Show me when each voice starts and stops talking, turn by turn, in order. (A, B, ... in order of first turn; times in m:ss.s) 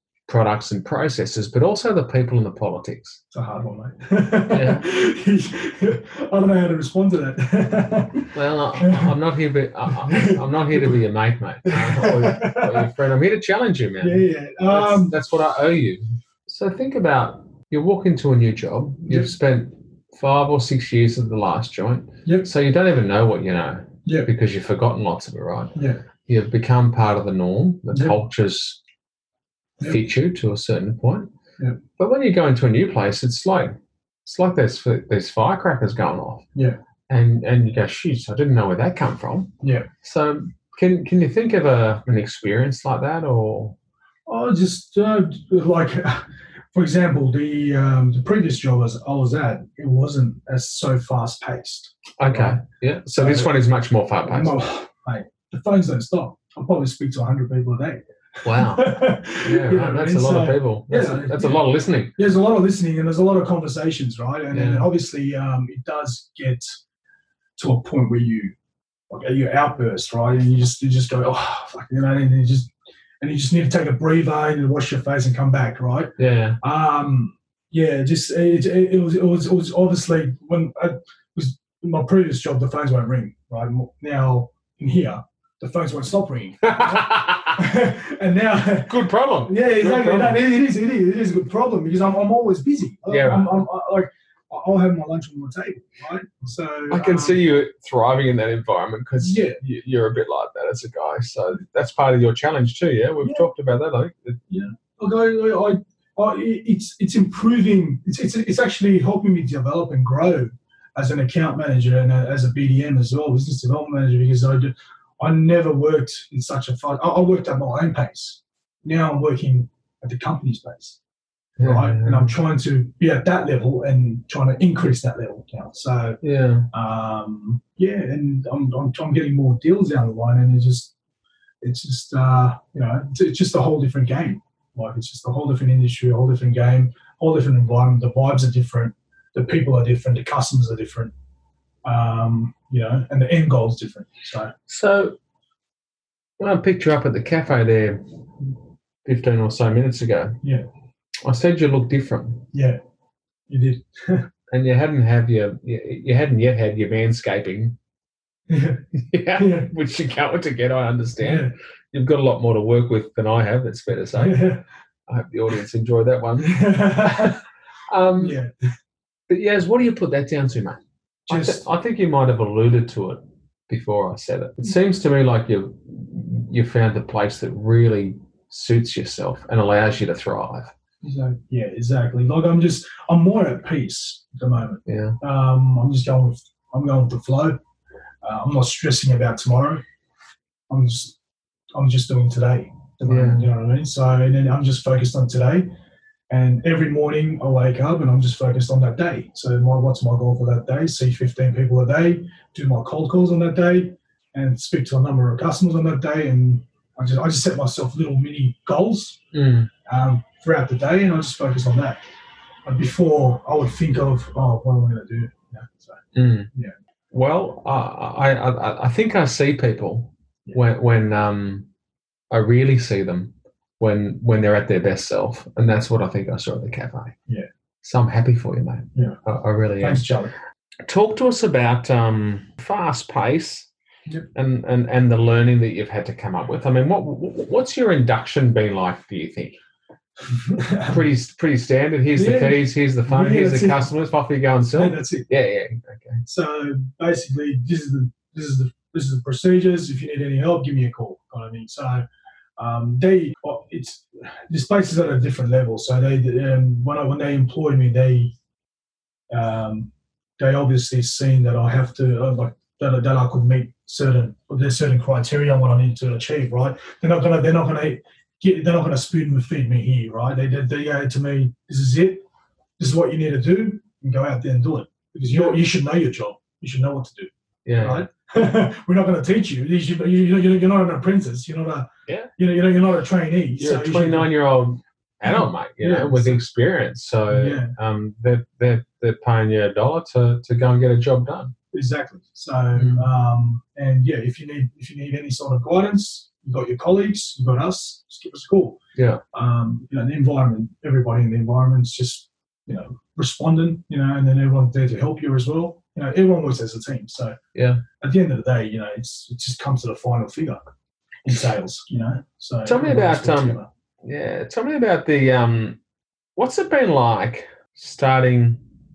0:00.3-0:03.2 A
0:03.3-0:09.1 B
0:04.5-0:04.9 A
0:08.3-0:28.8 A
0:09.9-0:11.0 B
0:11.6-0:12.9 B
0:14.0-0:15.2 B
0:25.7-0:26.0 B
0:27.9-0:28.2 B
0:29.8-0:31.3 A
0:32.0-0:36.4 A
0:37.1-0:43.8 A
0:39.6-0:39.9 B
0:44.3-0:52.6 B
0:52.2-0:54.6 A
0:53.2-0:53.5 B
0:54.3-1:01.6 B
0:58.4-1:02.2 A
1:02.2-1:06.6 B
1:04.5-1:04.9 A
1:07.6-1:08.5 B
1:09.1-1:37.4 B
1:16.2-1:16.6 A
1:26.6-1:27.6 A
1:28.9-1:30.4 A
1:33.1-1:33.5 A
1:36.9-1:44.4 A
1:39.2-1:39.6 B
1:43.2-1:43.5 B
1:44.5-2:01.0 B
2:01.6-2:02.4 A
2:01.6-2:06.2 B
2:06.2-2:06.7 A
2:06.7-2:10.9 B
2:11.6-2:21.1 B
2:21.8-2:24.5 B
2:24.7-2:25.2 A
2:26.4-2:28.0 A
2:29.0-2:30.4 A
2:31.2-2:32.4 A
2:32.5-2:32.8 B
2:33.5-2:34.3 B
2:34.5-2:37.8 A
2:38.5-2:38.8 B
2:38.9-2:44.5 A
2:39.4-2:39.7 B
2:41.2-2:41.5 B
2:44.1-2:44.6 B
2:45.1-2:48.4 A
2:46.4-2:47.4 B
2:48.2-2:48.5 B
2:49.3-3:00.7 A
2:51.3-2:51.6 B
3:01.0-3:07.6 B
3:04.8-3:05.2 A
3:08.2-3:09.8 B
3:10.7-3:11.2 B
3:11.7-3:15.7 B
3:13.0-3:13.5 A
3:16.3-3:29.2 B
3:29.3-3:29.7 A
3:29.8-3:32.0 B
3:32.6-3:36.0 B
3:36.1-3:36.5 A
3:37.1-3:41.7 A
3:42.3-3:47.2 A
3:47.8-3:50.0 A
3:49.8-3:50.3 B
3:50.9-3:53.7 A
3:54.3-3:59.6 A
4:00.3-4:01.0 B
4:00.8-4:06.2 A
4:02.1-4:03.9 B
4:04.7-4:05.3 B
4:06.2-4:12.0 B
4:12.6-4:18.3 B
4:19.3-4:32.2 B
4:32.8-4:44.3 B
4:37.6-4:38.1 A
4:43.6-4:51.5 A
4:45.2-4:46.4 B
4:47.3-4:47.7 B
4:51.7-4:58.8 B
4:52.7-4:53.0 A
4:59.0-4:59.2 A
4:59.3-5:07.4 B
5:07.5-5:07.8 A
5:08.0-5:10.7 B
5:11.2-5:13.7 B
5:12.6-5:15.8 A
5:16.4-5:18.6 A